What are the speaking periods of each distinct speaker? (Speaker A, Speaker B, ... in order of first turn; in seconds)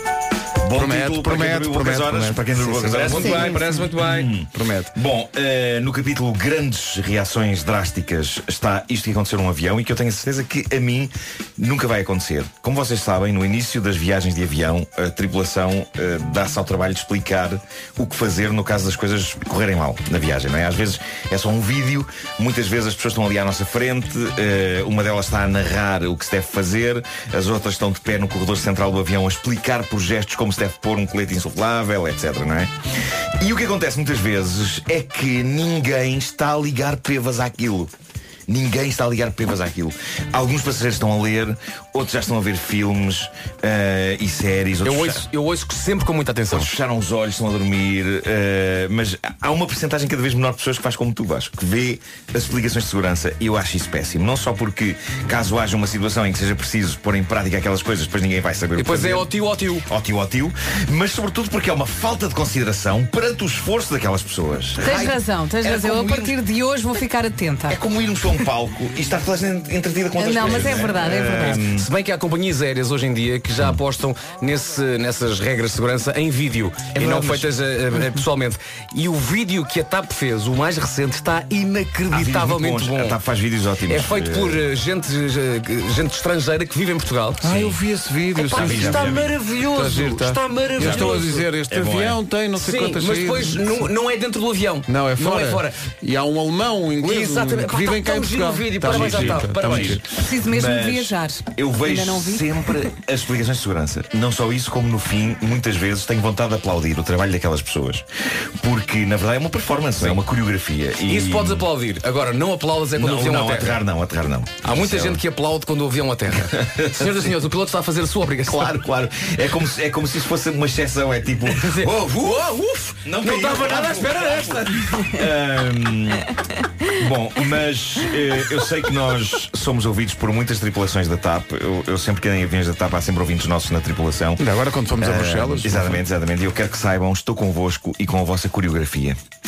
Speaker A: 0.6-32.7, 33.4-37.9, 38.5-45.3, 46.5-59.3, 59.9-66.3, 67.7-71.9, 76.9-77.5, 82.1-84.7, 88.5-89.3, 90.8-91.2, 91.7-92.2, 98.9-108.0, 108.6-111.7, 113.0-115.2, 116.5-117.1, 118.5-122.4, 123.0-126.3, 126.9-134.4, 135.0-139.2
Speaker B: 0.7-3.8, 4.5-4.9, 87.4-93.9, 94.9-100.0, 123.5-124.5, 134.4-136.0
Speaker C: 2.9-4.3, 44.8-46.7, 58.8-59.9, 70.5-70.8, 71.5-83.2, 83.9-87.8, 88.3-91.5, 92.6-95.8, 97.0-100.0, 111.1-113.8, 114.6-118.8, 121.5-124.8
Speaker D: 64.8-67.8, 70.2-71.6, 100.1-102.5